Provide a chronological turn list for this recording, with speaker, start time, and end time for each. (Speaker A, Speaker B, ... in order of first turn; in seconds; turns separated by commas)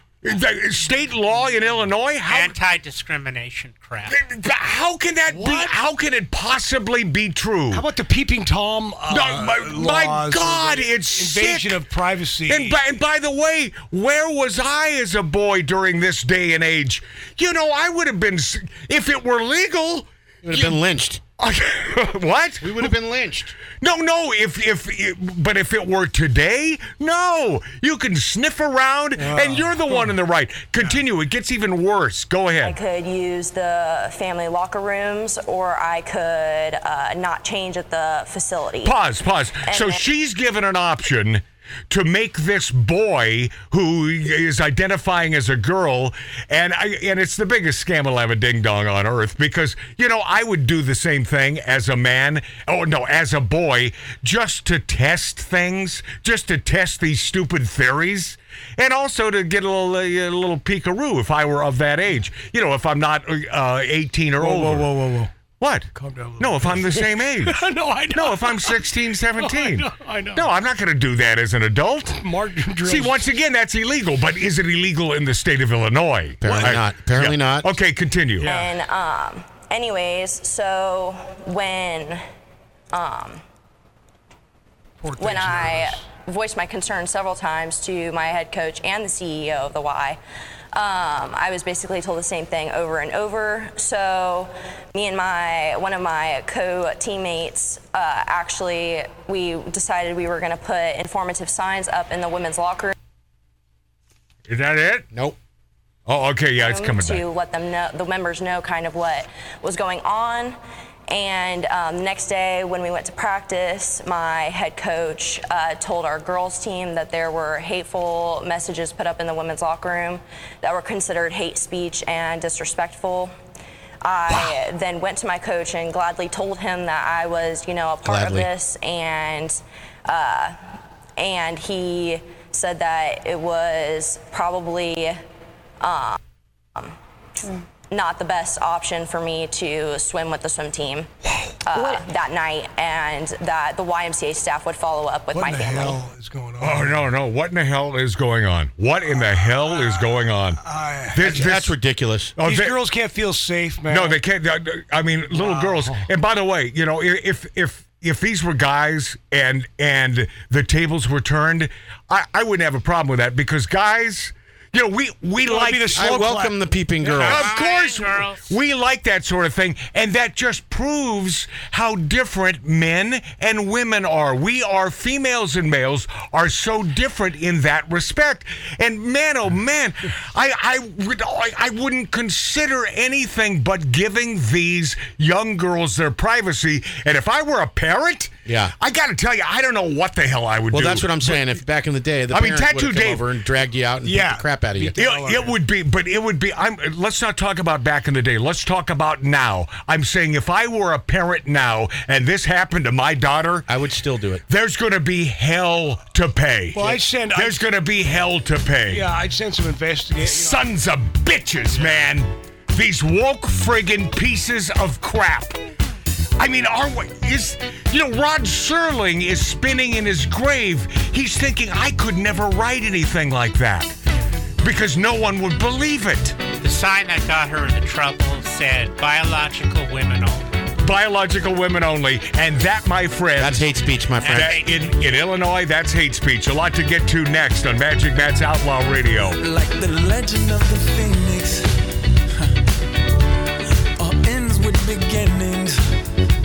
Speaker A: 0.2-2.5, Speaker B: 2.3-4.2, Speaker A: 4.1-7.9, Speaker C: 5.3-5.8, Speaker C: 7.7-12.8, Speaker A: 9.1-11.8, Speaker A: 12.5-20.8, Speaker D: 20.4-21.2, Speaker A: 21.4-22.9, Speaker D: 22.6-23.5, Speaker A: 23.7-32.8, Speaker C: 29.1-30.1, Speaker E: 32.6-38.9, Speaker A: 38.8-64.9, Speaker E: 39.6-40.0, Speaker C: 64.4-65.3, Speaker A: 65.5-72.3, Speaker C: 65.9-68.8, Speaker C: 69.3-70.5, Speaker C: 72.2-73.2, Speaker A: 72.8-78.5, Speaker D: 76.4-77.7, Speaker C: 76.5-76.8, Speaker C: 78.4-78.7, Speaker E: 78.4-82.2, Speaker E: 82.9-83.4, Speaker C: 85.0-86.0, Speaker E: 85.2-90.2, Speaker E: 90.7-102.9, Speaker A: 104.5-105.1, Speaker D: 105.1-105.4, Speaker A: 106.1-107.2, Speaker E: 106.6-110.6, Speaker E: 111.1-123.3, Speaker E: 124.0-130.6, Speaker D: 128.0-128.5, Speaker E: 131.2-135.2, Speaker E: 135.8-136.2, Speaker E: 137.9-141.1, Speaker E: 141.6-146.0, Speaker C: 145.3-147.0, Speaker A: 146.6-150.6, Speaker C: 150.6-151.6, Speaker A: 151.1-151.7, Speaker D: 151.2-152.3, Speaker A: 152.3-152.7, Speaker C: 152.4-154.2, Speaker A: 153.9-166.1, Speaker C: 155.3-156.1, Speaker C: 165.4-167.2, Speaker D: 165.9-167.5, Speaker B: 167.2-168.5, Speaker A: 167.2-191.4, Speaker D: 188.4-188.7, Speaker D: 190.7-194.9, Speaker A: 192.3-193.2, Speaker C: 194.0-195.6, Speaker A: 194.9-203.7, Speaker D: 203.7-204.4, Speaker A: 204.5-209.1, Speaker C: 206.7-207.6, Speaker C: 208.9-210.7, Speaker A: 210.2-215.6, Speaker C: 211.7-212.1, Speaker A: 216.4-223.9, Speaker A: 224.6-226.4, Speaker B: 226.6-230.5, Speaker A: 230.8-239.4, Speaker D: 233.4-234.6, Speaker B: 234.2-235.0, Speaker F: 239.3-241.7, Speaker F: 244.0-245.8